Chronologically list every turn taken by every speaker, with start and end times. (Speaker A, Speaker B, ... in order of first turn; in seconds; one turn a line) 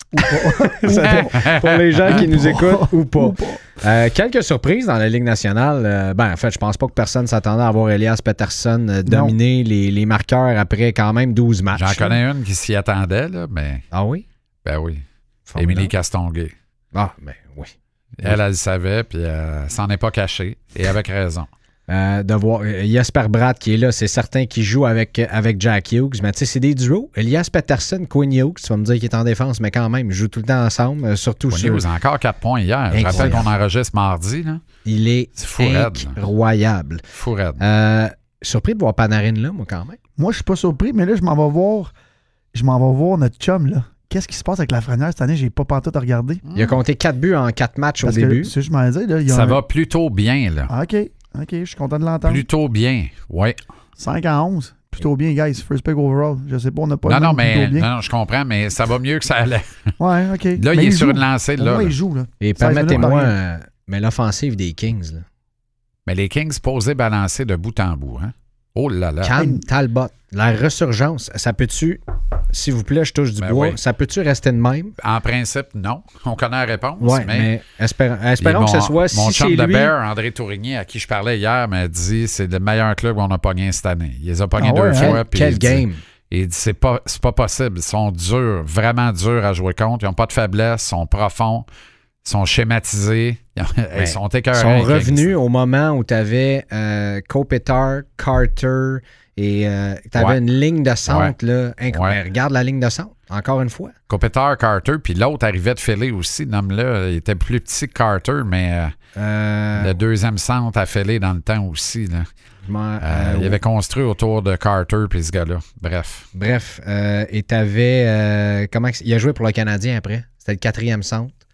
Speaker A: 0.1-1.4
Speaker B: 0.2-12.2
Speaker C: 0.9-2.3
Speaker A: 2.0-3.6
Speaker A: 9.1-9.3
Speaker C: 11.7-13.8
Speaker B: 13.9-14.2
Speaker C: 14.6-15.0
Speaker B: 15.5-15.9
Speaker C: 15.6-16.5
Speaker B: 16.9-18.4
Speaker C: 18.2-21.5
Speaker B: 21.9-31.9
Speaker C: 31.5-34.6
Speaker B: 32.9-33.5
Speaker B: 34.8-37.0
Speaker C: 35.4-36.2
Speaker C: 37.1-37.6
Speaker B: 37.6-40.0
Speaker A: 40.2-41.9
Speaker A: 42.5-46.4
Speaker C: 46.5-46.8
Speaker B: 46.5-48.5
Speaker A: 48.0-49.6
Speaker C: 49.3-50.7
Speaker A: 50.7-52.4
Speaker C: 52.2-53.6
Speaker A: 54.0-57.9
Speaker C: 57.0-59.7
Speaker A: 60.0-63.3
Speaker C: 60.6-61.9
Speaker B: 62.4-65.2
Speaker C: 66.0-69.4
Speaker B: 69.2-75.0
Speaker A: 69.3-69.6
Speaker C: 73.4-73.8
Speaker C: 75.0-77.5
Speaker B: 77.0-79.9
Speaker C: 78.4-91.7
Speaker A: 84.6-85.2
Speaker B: 84.9-86.0
Speaker C: 92.2-95.3
Speaker B: 94.0-103.9
Speaker C: 101.1-101.3
Speaker C: 101.9-102.2
Speaker C: 104.1-108.9
Speaker B: 109.1-110.0
Speaker C: 109.8-112.3
Speaker B: 112.7-113.6
Speaker C: 113.0-116.3
Speaker B: 116.3-121.3